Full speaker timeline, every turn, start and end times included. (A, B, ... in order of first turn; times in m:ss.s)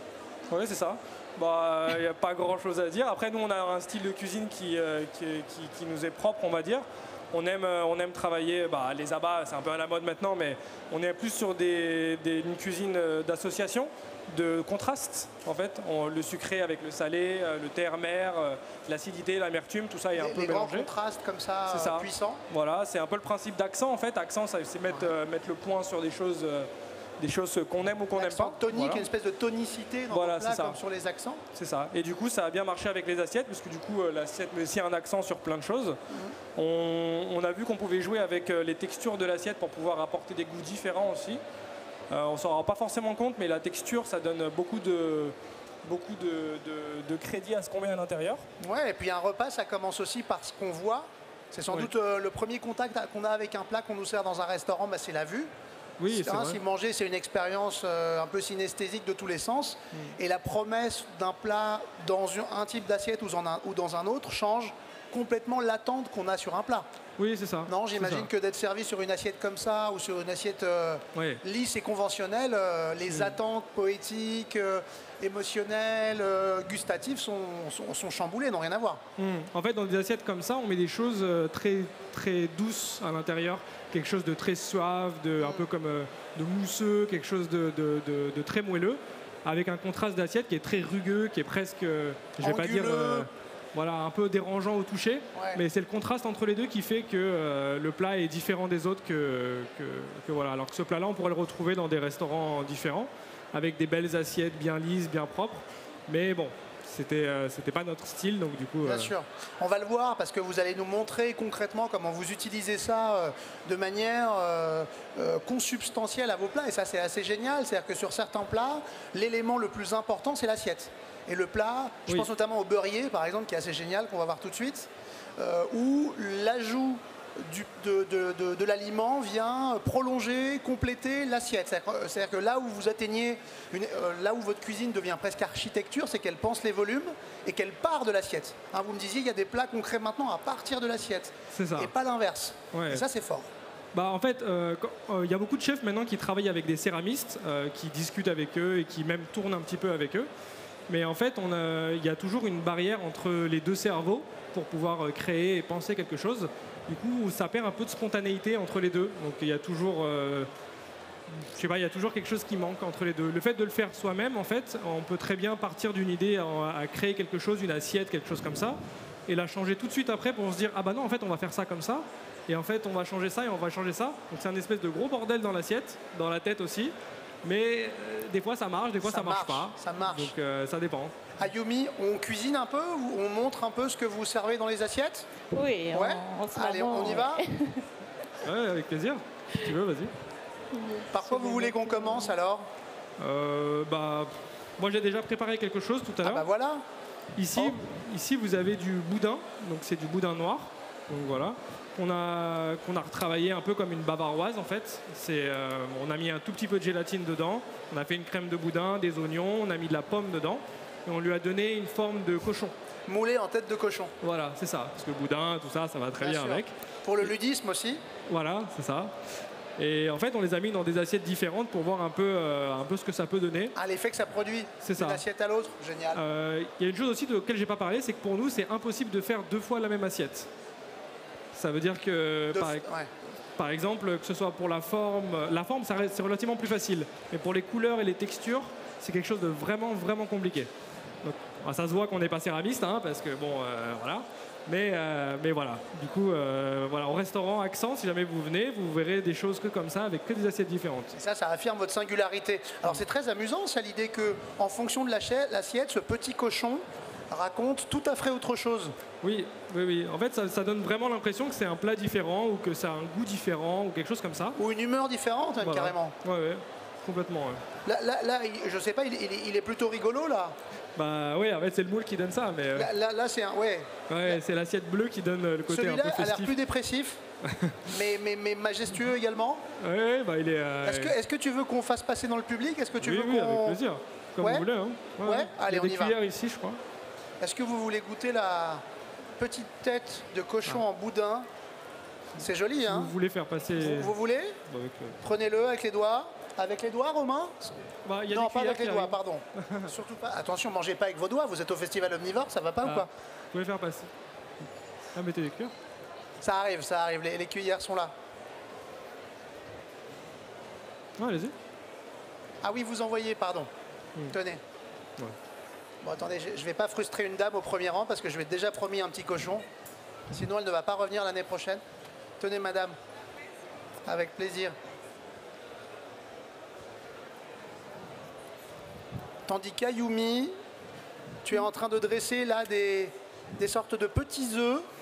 0:00.5-0:20.9 A
0:20.2-0:22.4 B
0:21.7-0:29.0 A
0:28.1-0:31.4 B
0:30.1-0:30.8 A
0:31.5-0:36.0 A
0:36.1-0:36.4 B
0:36.5-0:41.4 A
0:42.1-0:48.4 A
0:48.6-0:55.5 B
0:56.0-0:56.6 A
0:56.1-1:06.9 B
1:07.2-1:08.3 A
1:07.7-1:19.0 B
1:11.1-1:11.4 A
1:13.1-1:13.4 A
1:19.2-1:49.1 A
1:25.4-1:25.6 B
1:32.4-1:33.3 B
1:35.3-1:35.6 B
1:48.8-2:23.5 B
2:21.5-2:21.9 A
2:22.7-2:23.0 A
2:23.9-2:30.3 A
2:30.9-2:40.5 A
2:41.3-3:01.3 A
2:59.0-3:00.3 B
3:01.4-3:05.3 B
3:05.5-3:07.8 C
3:05.9-3:07.4 B
3:08.4-3:10.1 A
3:10.7-3:12.3 C
3:11.1-3:12.7 B
3:13.2-3:16.4 A
3:16.2-3:16.8 B
3:17.4-3:32.7 A
3:17.5-3:17.8 B
3:33.1-3:34.1 B
3:34.2-3:37.3 A
3:36.2-3:38.0 B
3:38.3-3:39.1 A
3:39.8-3:43.7 A
3:43.7-3:46.2 B
3:44.8-3:45.2 A
3:46.1-3:50.5 A
3:51.5-3:52.8 A
3:52.5-3:53.1 B
3:53.6-4:00.7 A
4:01.2-4:11.1 A
4:11.1-4:18.9 B
4:19.2-4:24.6 A
4:24.6-4:26.2 B
4:25.6-4:27.6 A
4:27.8-4:30.6 B
4:31.0-4:32.9 A
4:32.7-4:34.4 B
4:34.1-4:36.6 A
4:35.7-4:37.2 B
4:37.4-4:38.0 A
4:37.9-4:39.6 B
4:39.8-4:41.2 A
4:40.8-4:43.8 B
4:43.0-4:46.8 A
4:44.4-4:44.6 B
4:45.2-4:46.2 B
4:47.4-4:48.8 B
4:49.4-4:51.5 B
4:52.4-4:53.1 B
4:52.4-4:54.1 A
4:53.8-4:54.6 B
4:54.7-4:55.2 A
4:55.2-4:57.7 B
4:58.0-4:59.9 A
4:58.3-5:03.1 B
5:02.8-5:05.7 A
5:06.4-5:08.1 B
5:11.2-5:11.5 A
5:12.6-5:13.7 B
5:14.3-5:14.6 B
5:16.0-5:19.6 B
5:20.3-5:21.8 B
5:22.4-5:23.0 B
5:24.0-5:24.7 B
5:29.5-5:30.6 B
5:31.4-5:34.8 B